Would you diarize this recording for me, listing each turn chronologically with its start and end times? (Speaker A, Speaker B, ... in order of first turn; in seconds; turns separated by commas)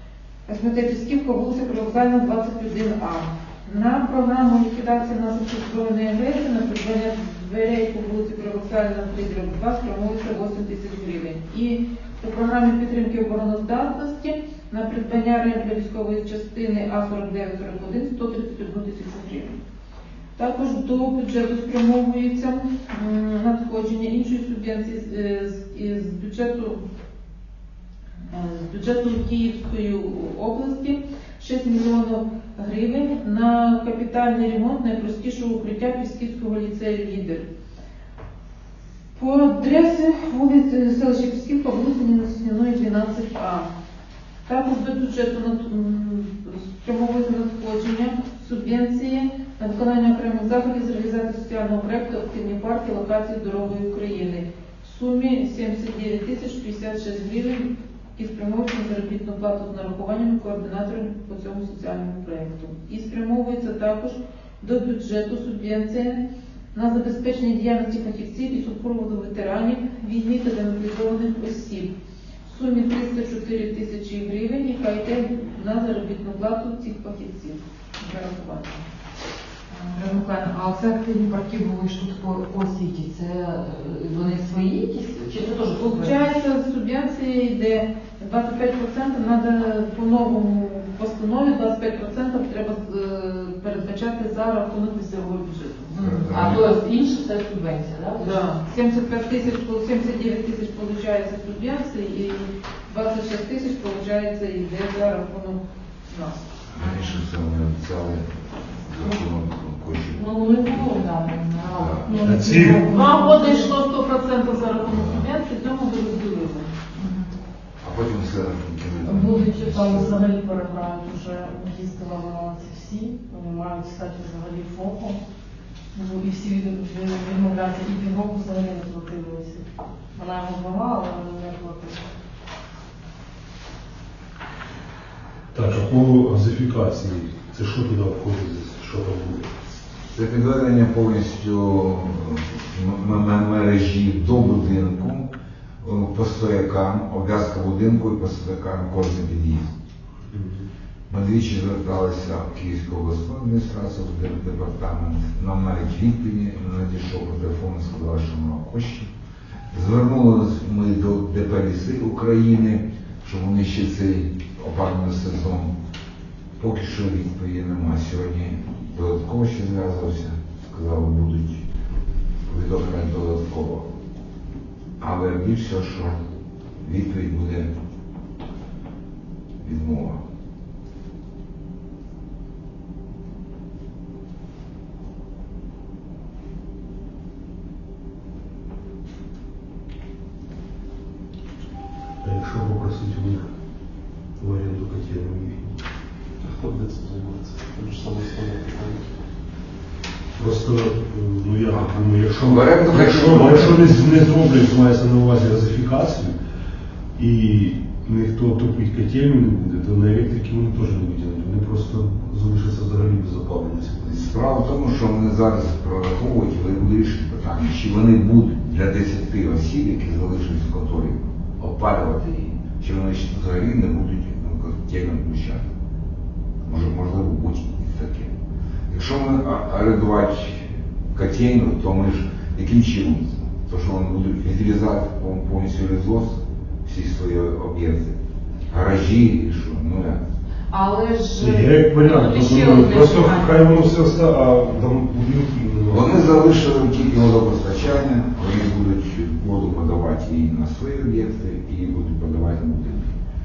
Speaker A: 0.5-19.6, Speaker A: 20.4-26.8, Speaker A: 28.3-37.4, Speaker A: 39.1-43.7, Speaker A: 44.5-66.2, Speaker A: 66.7-71.9, Speaker A: 72.4-78.8, Speaker B: 79.7-86.4, Speaker A: 85.8-96.2, Speaker C: 96.0-96.7, Speaker B: 96.2-98.3, Speaker A: 98.2-106.4, Speaker C: 106.7-111.0, Speaker B: 106.8-107.2, Speaker B: 110.1-112.9, Speaker C: 111.7-112.2, Speaker D: 112.0-113.7, Speaker E: 112.2-112.8, Speaker A: 112.9-116.7, Speaker B: 116.9-117.3, Speaker C: 117.8-120.2, Speaker D: 119.0-125.2, Speaker D: 125.9-132.2, Speaker E: 135.5-139.5, Speaker C: 140.1-145.3, Speaker C: 145.8-149.7, Speaker E: 150.3-150.7, Speaker C: 151.1-159.1, Speaker C: 159.7-165.7, Speaker C: 166.6-171.6, Speaker C: 172.4-173.9, Speaker C: 175.0-176.2, Speaker C: 176.8-177.7, Speaker C: 179.6-180.2, Speaker E: 192.2-193.5, Speaker E: 194.4-195.8, Speaker F: 196.4-199.1, Speaker E: 200.4-206.3, Speaker C: 201.7-203.9, Speaker E: 207.2-214.2, Speaker C: 214.0-225.7, Speaker C: 226.6-228.3, Speaker C: 228.9-238.2, Speaker C: 238.7-240.2, Speaker B: 240.7-243.9, Speaker E: 241.3-246.4, Speaker C: 245.9-253.1